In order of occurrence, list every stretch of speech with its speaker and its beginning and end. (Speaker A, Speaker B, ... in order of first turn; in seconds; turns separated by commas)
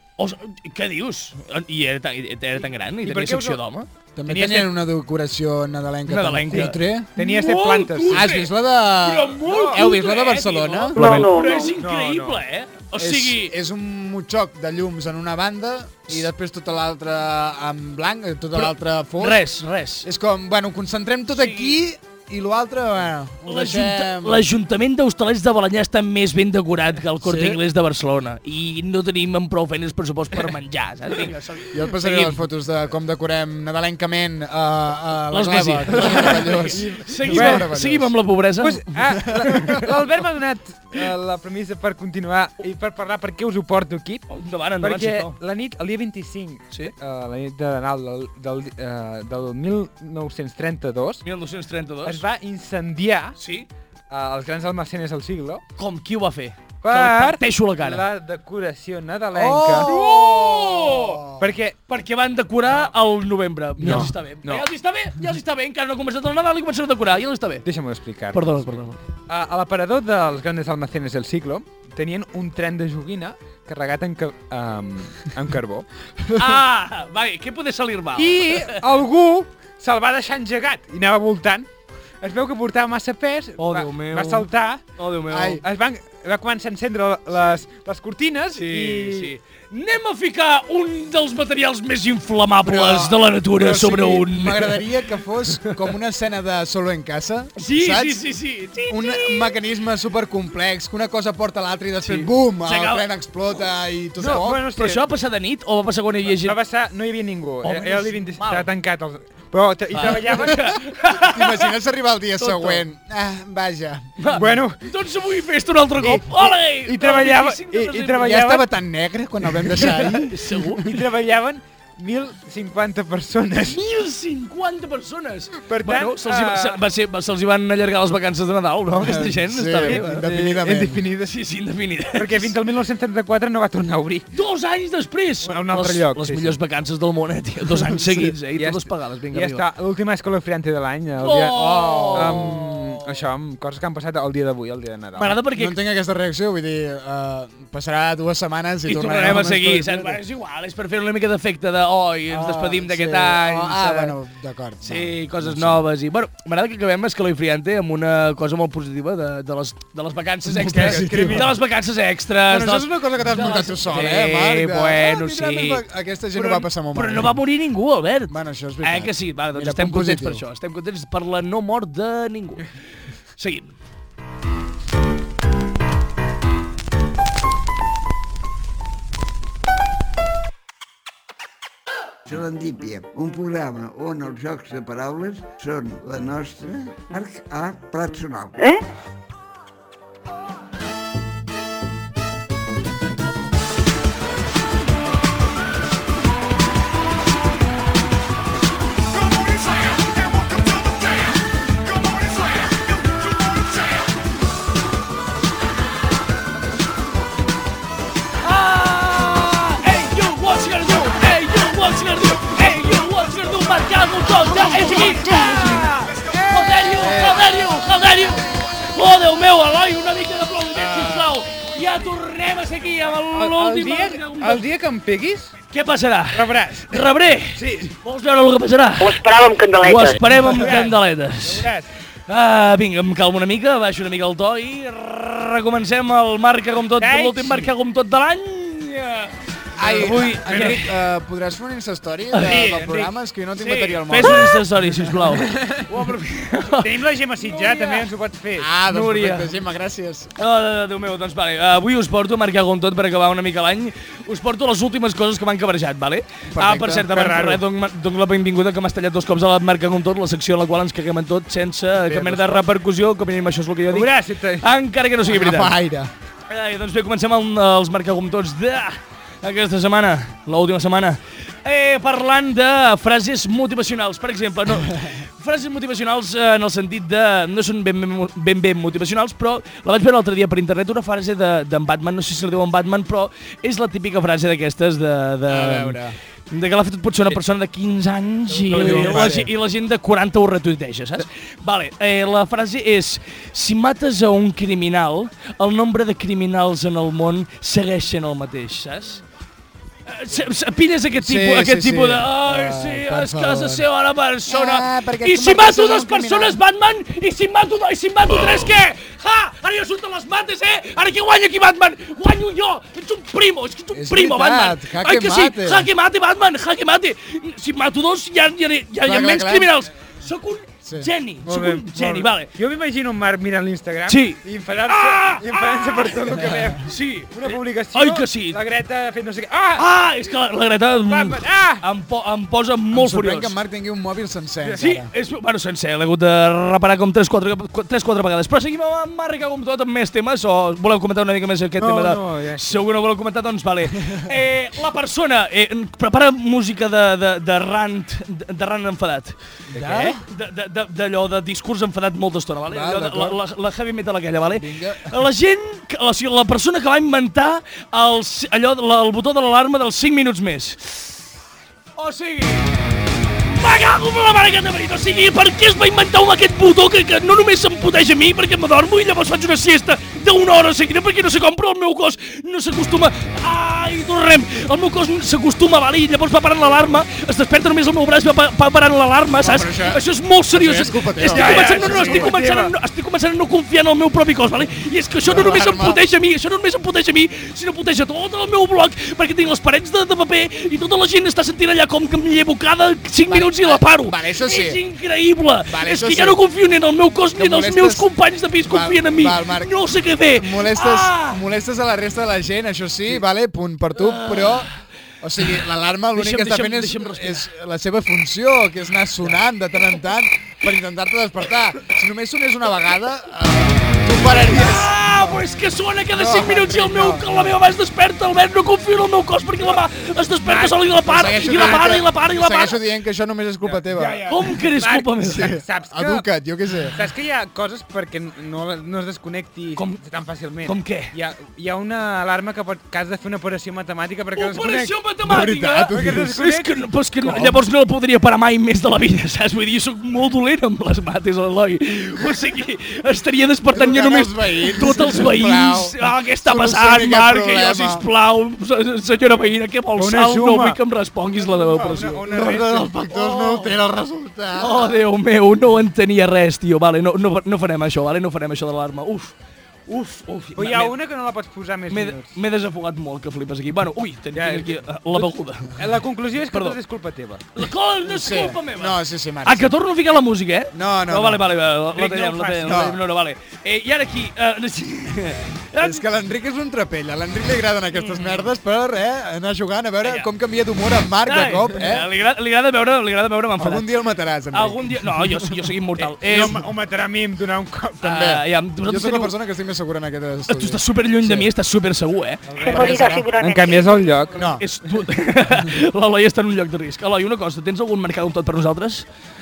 Speaker A: 0.2-3.9, Speaker B: 3.0-3.6, Speaker C: 4.2-7.1, Speaker B: 4.3-4.8, Speaker A: 6.1-13.5, Speaker B: 6.5-8.3, Speaker C: 8.1-11.3, Speaker B: 9.4-9.9, Speaker D: 10.9-11.7, Speaker B: 11.8-12.4, Speaker C: 13.0-24.4, Speaker A: 18.5-20.1, Speaker A: 21.3-21.8, Speaker A: 23.5-32.4, Speaker C: 27.2-27.6, Speaker C: 31.7-38.2, Speaker A: 35.3-39.9, Speaker B: 35.9-37.7, Speaker B: 38.6-44.3, Speaker C: 39.4-39.8, Speaker A: 44.3-45.4, Speaker B: 44.8-51.2, Speaker A: 51.2-52.2, Speaker B: 52.0-53.4, Speaker A: 53.4-53.7, Speaker B: 54.1-55.6, Speaker A: 55.8-58.0, Speaker B: 56.8-59.9, Speaker C: 59.4-61.4, Speaker A: 59.8-61.2, Speaker B: 61.4-61.8, Speaker A: 61.9-67.7, Speaker B: 62.6-62.9, Speaker C: 63.8-64.1, Speaker B: 63.9-64.7, Speaker B: 67.7-68.7, Speaker A: 68.3-69.0, Speaker B: 69.3-75.9, Speaker A: 76.3-78.8, Speaker B: 78.2-81.7, Speaker B: 82.2-84.9, Speaker A: 83.6-85.6, Speaker C: 85.3-85.6, Speaker B: 85.5-89.3, Speaker A: 88.5-94.8, Speaker C: 92.6-98.2, Speaker A: 97.6-99.3, Speaker C: 98.9-104.6, Speaker A: 102.0-103.0, Speaker B: 104.2-105.1, Speaker A: 104.2-106.6, Speaker B: 106.3-110.8, Speaker A: 107.6-108.7, Speaker A: 109.9-111.7, Speaker C: 111.0-114.1, Speaker A: 112.4-112.8, Speaker A: 114.2-118.4, Speaker B: 114.3-114.8, Speaker B: 116.0-118.7, Speaker C: 118.2-120.5, Speaker A: 120.0-120.9, Speaker B: 120.8-123.8, Speaker A: 123.7-130.3, Speaker B: 125.7-126.8, Speaker C: 129.0-131.0, Speaker B: 129.8-131.4, Speaker A: 131.3-132.5, Speaker B: 132.1-134.3, Speaker A: 134.3-139.6, Speaker B: 135.4-136.6, Speaker B: 138.5-145.4, Speaker A: 141.2-142.8, Speaker C: 141.4-142.8, Speaker A: 145.2-145.8, Speaker C: 145.5-150.2, Speaker A: 148.9-154.2, Speaker C: 152.3-155.8, Speaker A: 154.8-165.8, Speaker C: 160.5-161.5, Speaker B: 160.7-161.6, Speaker C: 162.5-167.4, Speaker A: 166.3-172.7, Speaker C: 168.3-170.4, Speaker A: 173.4-173.7, Speaker E: 182.3-188.6, Speaker A: 208.4-224.6, Speaker B: 214.9-217.1, Speaker C: 217.0-217.3, Speaker B: 223.3-225.5, Speaker A: 225.7-229.2, Speaker B: 226.3-227.9, Speaker D: 229.0-230.2, Speaker A: 229.8-231.7, Speaker B: 230.4-231.9, Speaker A: 232.3-240.8, Speaker B: 237.0-237.7, Speaker C: 239.8-244.6, Speaker B: 239.9-240.8, Speaker A: 242.3-242.7, Speaker B: 242.4-243.2, Speaker A: 243.6-248.1, Speaker B: 245.3-245.9, Speaker B: 246.8-248.7, Speaker C: 248.6-250.3, Speaker A: 248.9-249.5, Speaker A: 250.4-265.7, Speaker C: 256.5-257.1, Speaker B: 257.0-257.6, Speaker C: 262.1-262.6, Speaker B: 263.9-264.7, Speaker C: 265.2-266.1, Speaker A: 266.5-286.0, Speaker C: 285.5-286.2, Speaker A: 286.5-299.2, Speaker B: 288.5-289.5, Speaker C: 288.6-289.5, Speaker A: 300.1-322.5, Speaker C: 301.2-303.9, Speaker C: 304.5-306.6, Speaker C: 313.9-315.9, Speaker C: 319.0-319.8, Speaker C: 320.9-321.1, Speaker B: 321.5-329.9, Speaker A: 324.1-328.6, Speaker A: 329.8-333.5, Speaker B: 331.1-331.9, Speaker C: 332.9-335.1, Speaker A: 334.7-361.1, Speaker B: 341.8-342.8, Speaker B: 349.7-350.2, Speaker C: 349.8-350.1, Speaker C: 352.7-353.4, Speaker C: 354.5-355.1, Speaker A: 362.0-362.8, Speaker A: 363.5-401.4, Speaker C: 379.4-382.3, Speaker B: 381.2-382.7, Speaker C: 385.3-386.0, Speaker C: 393.3-394.8, Speaker C: 395.7-396.4, Speaker C: 397.4-398.1, Speaker C: 398.6-399.8, Speaker C: 400.3-404.7, Speaker A: 404.0-404.8, Speaker C: 405.2-414.9, Speaker A: 406.1-407.5, Speaker A: 414.2-422.8, Speaker C: 416.2-417.2, Speaker B: 416.2-417.2, Speaker B: 420.4-421.9, Speaker C: 421.1-424.4, Speaker B: 423.6-426.3, Speaker A: 424.3-425.5, Speaker C: 425.2-427.0, Speaker B: 426.9-435.0, Speaker A: 430.6-431.1, Speaker A: 434.4-453.7, Speaker C: 435.2-436.4, Speaker B: 435.9-436.9, Speaker C: 437.2-437.6, Speaker C: 443.7-448.0, Speaker B: 450.0-450.8, Speaker B: 451.3-452.9, Speaker C: 451.8-455.0, Speaker A: 454.6-459.3, Speaker A: 459.9-460.9, Speaker B: 460.6-462.4, Speaker A: 461.9-465.7, Speaker B: 464.3-467.5, Speaker A: 466.5-466.8, Speaker A: 467.6-476.0, Speaker C: 468.1-469.7, Speaker C: 470.7-471.4, Speaker B: 471.9-472.9, Speaker C: 472.6-473.0, Speaker C: 475.8-482.1, Speaker A: 477.9-478.5, Speaker A: 480.0-480.3, Speaker A: 481.2-483.9, Speaker C: 483.6-485.5, Speaker A: 484.5-486.6, Speaker B: 486.0-488.2, Speaker A: 488.0-489.3, Speaker C: 488.0-491.5, Speaker A: 490.5-492.4, Speaker B: 492.5-494.5, Speaker C: 492.6-493.3, Speaker D: 492.7-493.9, Speaker C: 494.3-494.6, Speaker A: 494.6-499.1